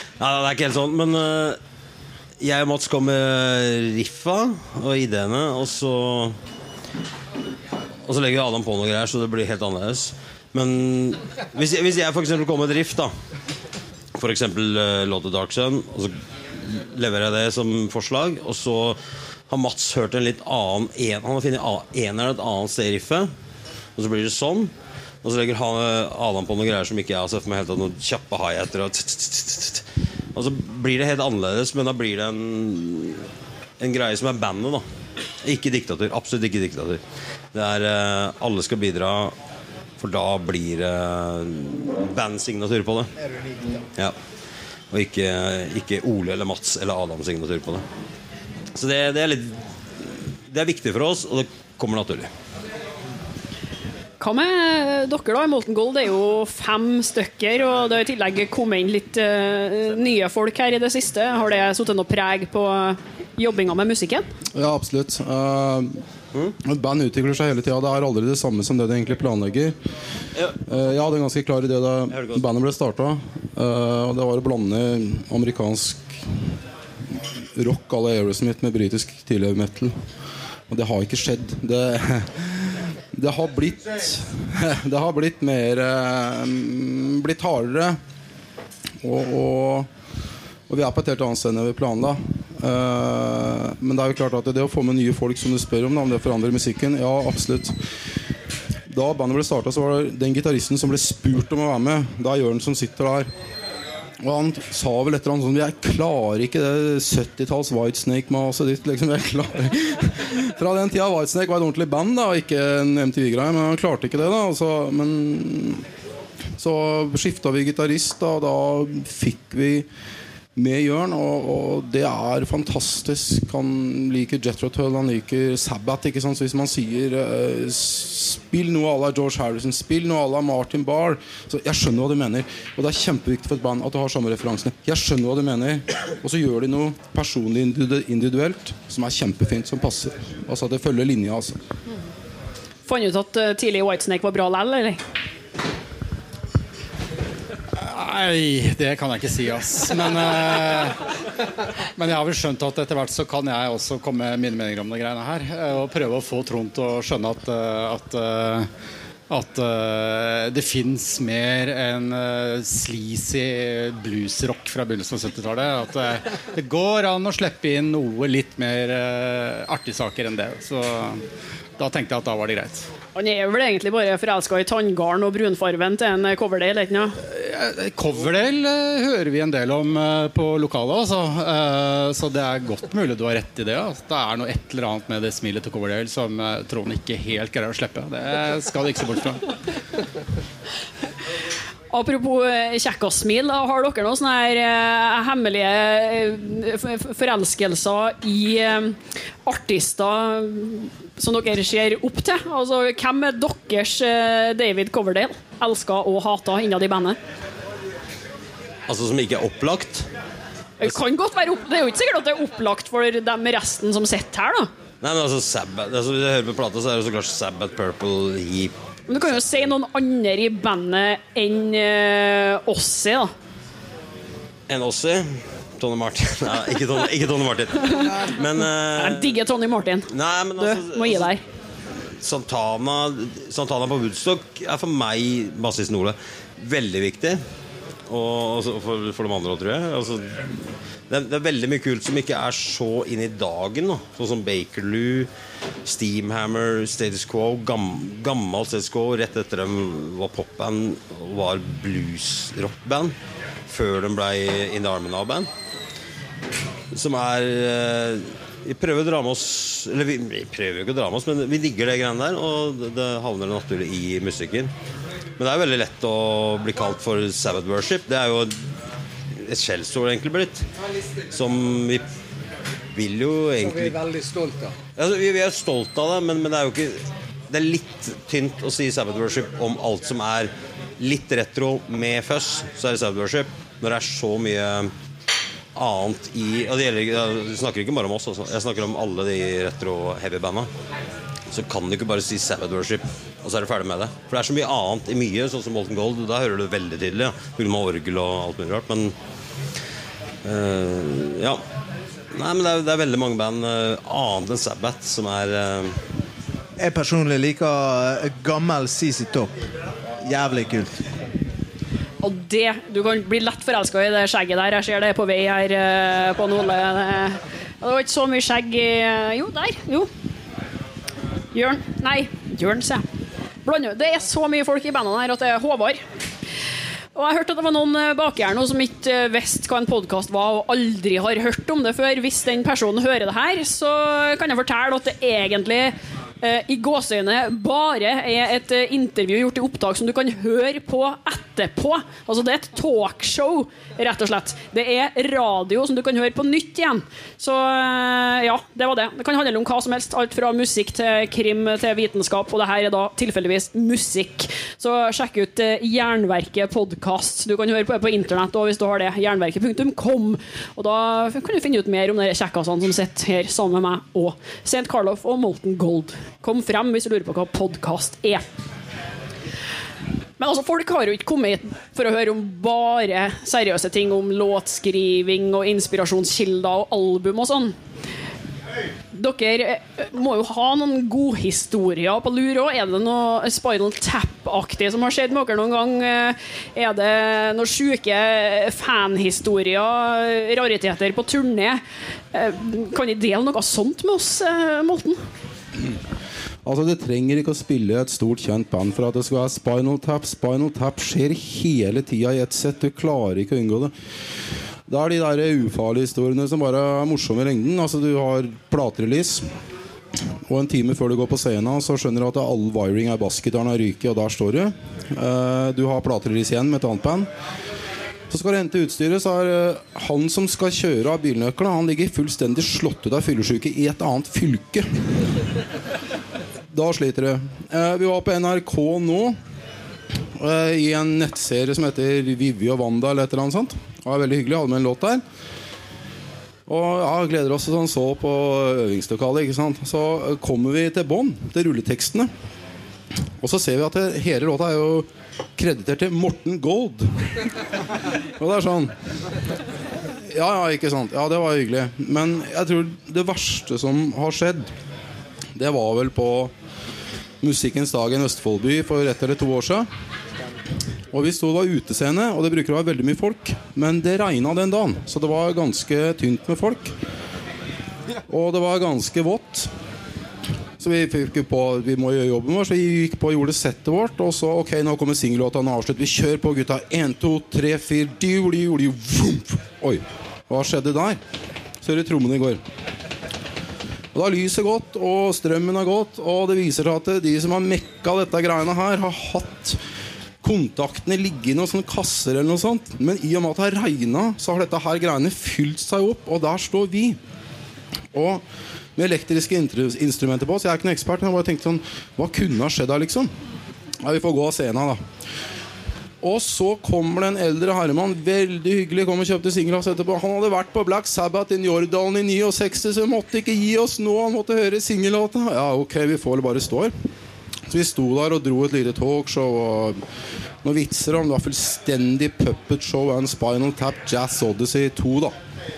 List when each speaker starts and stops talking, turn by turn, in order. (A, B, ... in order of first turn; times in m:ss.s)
0:00.2-0:01.6 A
0:02.4-0:06.4 A
0:08.1-0:13.1 A
0:14.1-0:16.1 A
0:16.6-0:19.0 A
0:19.5-0:23.3 A
0:24.0-0:24.7 A
0:25.2-0:29.8 A
0:30.4-0:33.2 A
0:33.8-0:34.8 A
0:35.4-0:37.0 A
0:37.5-0:39.3 A
0:40.0-0:43.1 A
0:43.2-0:43.8 B
0:44.9-0:47.8 A
0:48.8-0:49.6 A
0:50.5-0:52.3 A
0:54.2-1:04.3 C
1:04.5-1:06.0 D
1:06.6-1:09.8 D
1:10.4-1:10.8 A
1:10.7-1:16.2 D
1:12.1-1:12.4 A
1:17.6-1:19.9 D
1:20.7-1:28.0 D
1:29.0-1:29.9 D
1:30.7-1:37.7 D
1:38.9-1:43.3 D
1:44.2-1:55.8 D
1:56.6-1:59.9 D
2:00.6-2:21.6 D
2:22.9-2:25.0 C
2:27.8-2:31.0 E
2:32.0-2:38.7 E
2:39.3-2:51.2 E
2:51.8-2:52.8 E
2:53.2-2:57.2 C
2:57.2-3:09.5 E
3:11.9-3:27.2 C
3:28.9-3:30.1 A
3:30.8-3:34.7 C
3:35.0-3:39.7 A
3:39.1-3:43.3 C
3:44.7-3:49.3 A
3:47.8-3:48.4 C
3:49.0-3:51.4 C
3:50.1-3:51.3 A
3:52.2-3:57.4 A
3:58.1-4:00.5 A
4:01.1-4:05.3 A
4:05.8-4:13.1 A
4:13.7-4:15.5 A
4:16.9-4:24.7 A
4:25.4-4:28.6 A
4:29.4-4:30.6 A
4:31.3-4:32.0 A
4:32.9-4:34.0 A
4:35.0-4:44.9 A
4:45.7-4:50.7 A
4:51.5-4:59.1 A
5:00.4-5:01.6 A
5:02.3-5:06.0 A
5:06.8-5:09.6 B
5:10.2-5:11.0 B
5:12.2-5:20.1 C
5:21.6-5:23.0 C
5:23.6-5:26.0 C
5:27.1-6:08.4 C
6:10.4-6:17.7 C
6:19.1-6:31.8 C
6:32.3-6:35.2 C
6:36.6-6:43.9 D
6:44.9-6:49.4 D
6:50.5-6:57.3 D
6:58.3-7:05.3 D
7:06.7-7:09.4 D
7:10.4-7:15.2 D
7:16.7-7:22.3 D
7:23.4-7:27.4 D
7:28.4-7:28.9 D
7:30.3-7:34.7 D
7:35.6-7:36.5 D
7:37.4-7:39.9 D
7:41.1-7:46.9 D
7:48.3-7:49.7 D
7:50.8-8:01.2 D
8:01.8-8:02.6 D
8:04.1-8:09.8 D
8:10.4-8:17.2 D
8:18.1-8:18.4 D
8:19.0-8:23.3 D
8:24.0-8:25.0 D
8:26.2-8:36.9 D
8:37.7-8:40.0 D
8:40.6-8:45.4 D